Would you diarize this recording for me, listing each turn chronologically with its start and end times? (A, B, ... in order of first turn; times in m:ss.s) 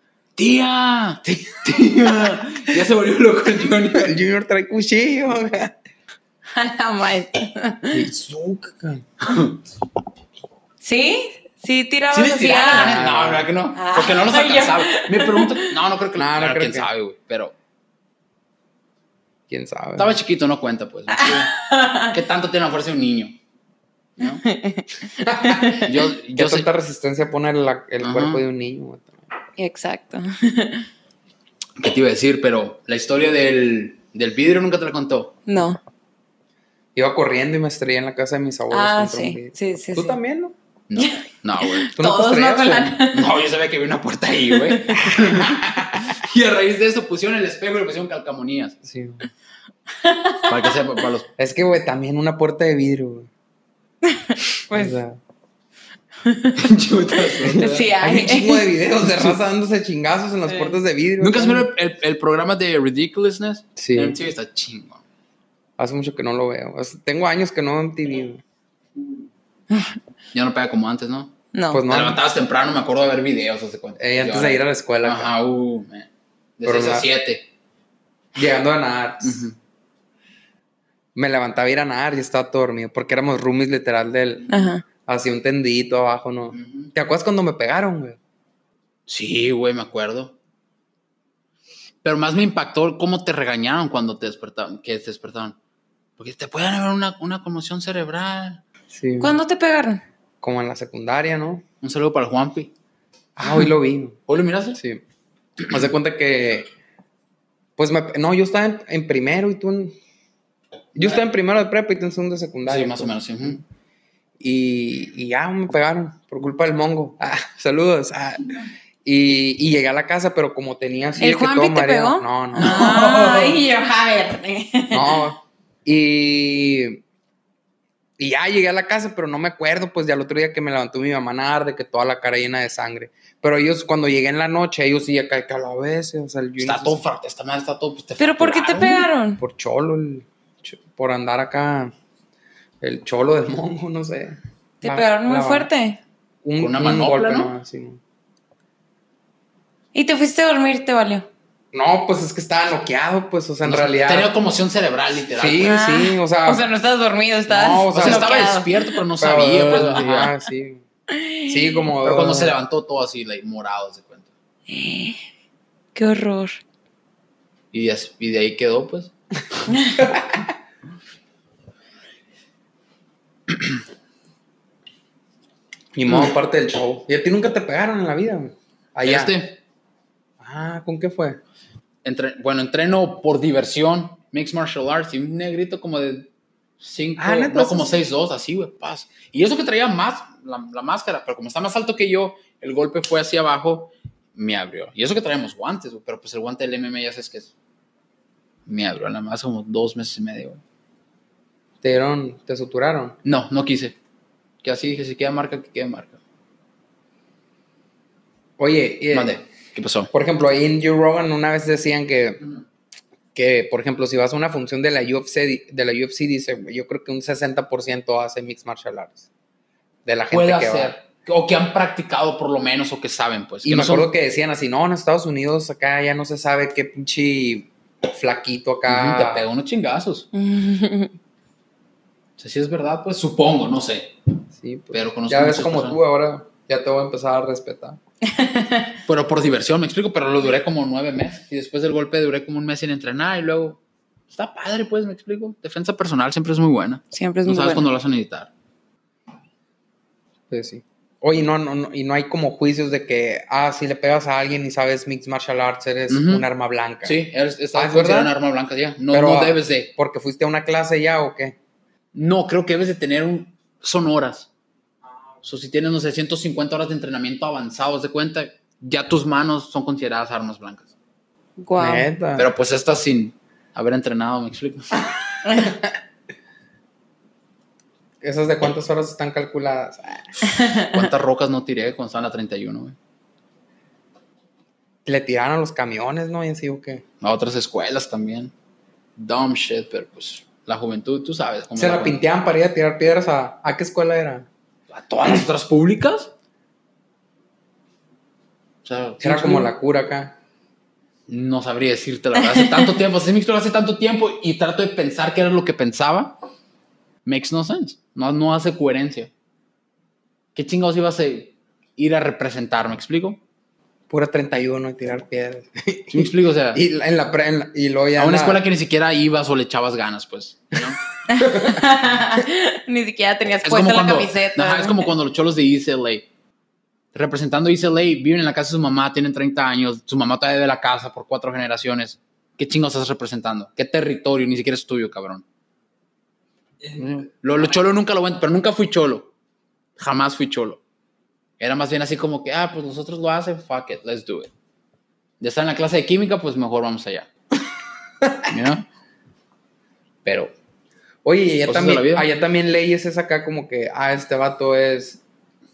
0:00.4-0:04.2 A
0:03.9-0:05.8 B
0:06.5-0:08.1 C
0:07.9-0:09.0 B
0:09.2-0:09.6 A
0:10.8-0:13.1 C
0:12.1-0:17.5 A
0:12.7-0:13.5 B
0:13.7-0:15.8 C
0:16.2-0:16.9 B
0:19.5-0:20.2 B
0:20.0-0:23.4 A
0:21.1-0:22.1 C
0:24.2-0:24.4 A
0:24.4-0:25.9 C
0:25.2-0:25.8 B
0:25.8-0:26.7 A
0:26.3-0:29.2 B
0:28.0-0:28.4 A
0:29.6-0:30.9 C
0:31.8-0:35.4 A
0:35.5-0:35.8 C
0:37.0-0:40.6 B
0:38.7-0:40.2 C
0:40.9-0:41.9 A
0:41.0-0:43.3 C
0:42.0-0:43.0 B
0:43.0-0:48.8 A
0:44.6-0:45.0 C
0:45.1-0:46.0 B
0:48.8-0:49.3 B
0:50.0-0:50.8 C
0:50.5-0:51.3 A
0:51.4-0:53.3 B
0:54.1-0:55.0 C
0:54.7-0:55.2 B
0:56.2-0:58.8 C
0:56.6-0:57.9 A
0:57.4-1:01.7 B
1:00.5-1:00.8 C
1:01.2-1:05.0 A
1:03.8-1:04.2 B
1:05.8-1:08.4 B
1:10.3-1:11.3 A
1:11.5-1:11.8 C
1:11.7-1:12.2 B
1:11.9-1:17.5 A
1:14.0-1:15.3 B
1:16.6-1:17.1 B
1:18.4-1:19.4 B
1:19.2-1:19.6 A
1:21.2-1:24.5 B
1:24.5-1:24.8 C
1:25.0-1:28.2 B
1:26.5-1:26.9 A
1:29.1-1:30.4 A
1:32.0-1:35.6 A
1:36.2-1:38.6 A
1:38.9-1:39.4 B
1:39.2-1:40.0 C
1:40.4-1:41.6 B
1:41.8-1:42.7 A
1:43.4-1:44.2 B
1:44.3-1:44.8 A
1:44.8-1:45.0 B
1:45.7-1:46.7 B
1:47.8-1:50.0 B
1:51.0-1:53.5 B
1:52.7-1:53.6 A
1:54.4-1:58.5 B
1:59.0-2:03.6 B
2:01.2-2:05.3 C
2:02.6-2:03.6 A
2:04.9-2:07.0 B
2:08.2-2:17.0 B
2:16.6-2:19.1 A
2:18.2-2:19.4 C
2:19.4-2:21.9 B
2:22.8-2:25.7 B
2:24.8-2:26.0 C
2:26.4-2:28.0 B
2:26.6-2:27.5 A
2:29.9-2:31.3 C
2:31.7-2:34.3 B
2:33.6-2:35.8 A
2:35.4-2:36.7 B
2:35.6-2:39.0 C
2:37.5-2:38.4 B
2:37.9-2:40.3 A
2:39.2-2:40.8 B
2:41.1-2:41.8 C
2:41.5-2:42.6 B
2:42.0-2:44.3 A
2:44.7-2:45.2 C
2:46.0-2:46.6 C
2:47.7-2:49.1 A
2:50.0-2:50.5 B
2:55.9-2:59.4 B
2:59.0-2:59.6 A
3:00.4-3:01.4 B
3:02.0-3:06.3 A
3:06.8-3:17.5 A
3:07.2-3:08.0 B
3:18.7-3:20.6 A
3:21.8-3:23.2 B
3:23.2-3:24.0 A
3:24.6-3:26.2 A
3:28.6-3:29.4 B
3:29.1-3:30.1 A
3:30.1-3:32.4 B
3:33.4-3:39.3 B
3:40.0-3:41.0 B
3:40.3-3:44.1 A
3:43.6-3:49.5 B
3:48.9-3:50.3 A
3:50.3-3:51.1 C
3:52.4-3:54.1 A
3:54.6-3:58.0 B
3:54.9-3:56.0 A
3:58.3-3:58.9 C
3:59.1-4:08.5 A
4:07.1-4:07.8 C
4:10.5-4:17.2 B
4:16.1-4:16.5 A
4:17.0-4:19.9 A
4:17.8-4:18.3 B
4:19.1-4:21.6 B
4:22.2-4:24.5 A
4:25.4-4:30.9 A
4:31.6-4:32.1 C
4:31.8-4:32.5 B
4:32.4-4:35.0 A
4:35.5-4:35.8 C
4:38.2-4:40.3 B
4:40.5-4:40.9 C
4:40.9-4:43.0 A
4:45.1-4:47.0 B
4:47.2-4:48.5 A
4:49.2-4:52.2 A
4:51.8-4:54.5 B
4:54.9-4:56.3 A
4:58.8-4:59.7 A
4:59.2-5:00.4 B
5:01.3-5:06.4 A
5:02.6-5:02.8 C
5:07.2-5:09.3 A
5:10.6-5:13.4 A
5:14.1-5:18.6 B
5:16.1-5:16.8 A
5:18.2-5:21.0 A
5:21.3-5:25.1 C
5:21.5-5:21.8 B
5:23.6-5:26.3 A
5:27.1-5:35.4 A
5:36.9-5:39.3 A
5:40.0-5:40.8 A
5:41.6-5:44.5 A
5:45.4-5:47.3 A
5:48.5-5:48.9 A
5:50.2-5:50.5 A
5:51.2-5:55.2 B
5:51.6-5:52.3 A